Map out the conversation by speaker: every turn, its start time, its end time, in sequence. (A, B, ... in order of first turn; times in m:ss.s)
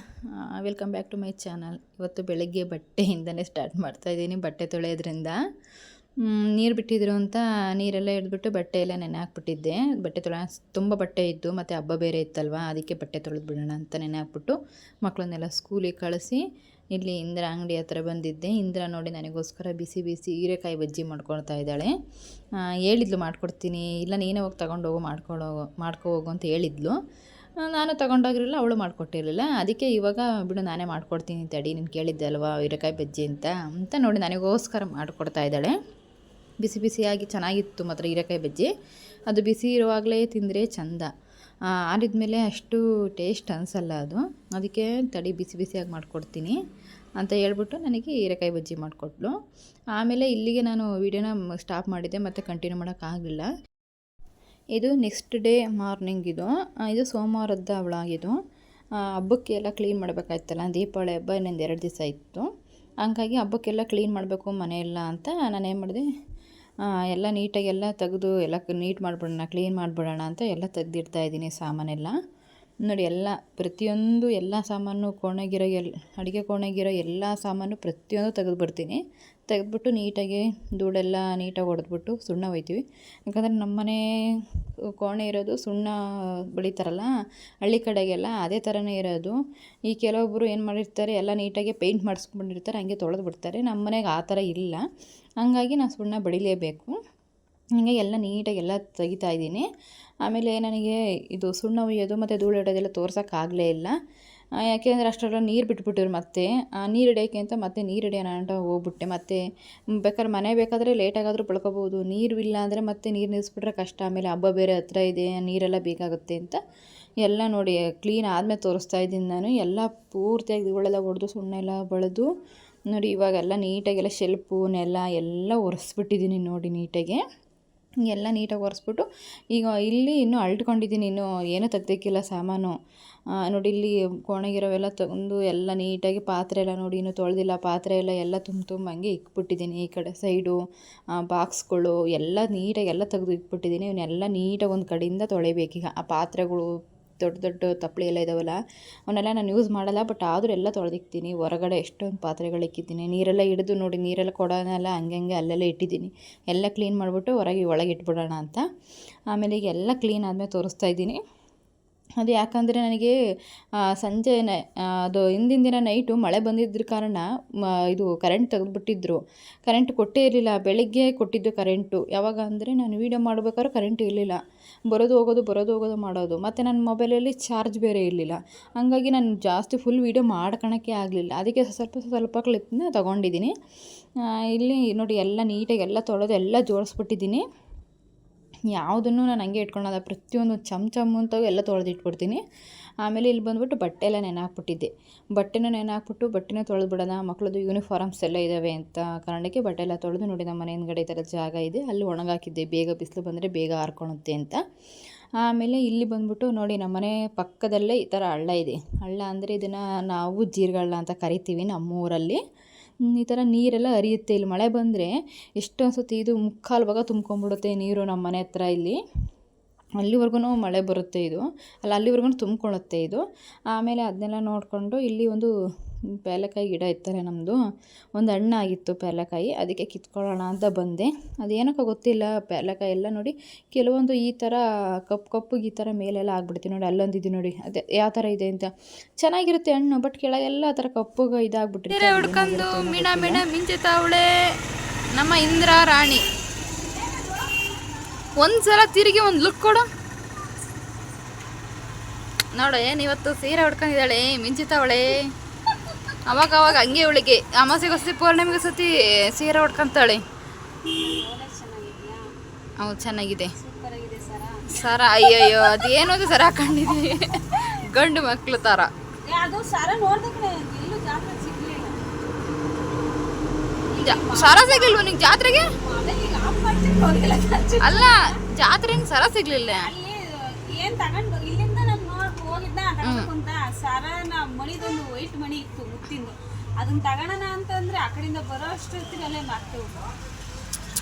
0:00.4-0:05.4 A
0:06.2-0:16.4 A
0:17.0-0:21.9 A
0:22.8-0:27.0 A
0:27.6-0:35.8 A
0:36.6-0:38.7 A
0:39.3-0:41.1 A
0:41.9-0:46.6 A
0:47.2-0:49.4 A
0:50.0-0:53.5 A
0:54.8-0:58.4 A
0:59.2-1:02.5 A
1:03.0-1:06.0 A
1:07.1-1:12.2 A
1:12.8-1:24.0 A
1:25.0-1:26.0 A
1:26.5-1:27.1 A
1:27.6-1:29.4 A
1:29.9-1:34.8 A
1:35.4-1:37.0 A
1:37.8-1:39.7 A
1:40.2-1:44.0 A
1:44.6-1:49.4 A
1:49.9-1:56.6 A
1:57.2-2:02.3 A
2:02.9-2:07.2 A
2:08.1-2:12.8 A
2:13.4-2:20.6 A
2:21.2-2:26.7 A
2:27.2-2:38.7 A
2:39.3-2:41.2 A
2:42.2-2:43.2 A
2:43.9-2:47.3 A
2:47.9-3:03.5 A
3:04.4-3:07.4 A
3:08.7-3:12.4 A
3:13.0-3:24.6 A
3:25.4-3:32.4 A
3:33.1-3:39.0 A
3:40.0-3:45.5 A
3:46.2-3:47.6 A
3:48.2-4:03.4 A
4:01.9-4:04.5 B
4:05.1-4:06.2 B
4:06.8-4:08.6 C
4:08.4-4:09.8 B
4:12.6-4:15.3 B
4:16.3-4:20.2 B
4:20.8-4:22.2 C
4:22.8-4:23.5 B
4:23.6-4:26.0 C
4:24.7-4:28.9 B
4:29.2-4:32.0 C
4:33.9-4:38.4 C
4:34.0-4:35.7 B
4:37.8-4:39.9 B
4:39.8-4:40.2 C
4:40.7-4:50.1 C
4:43.0-4:43.3 B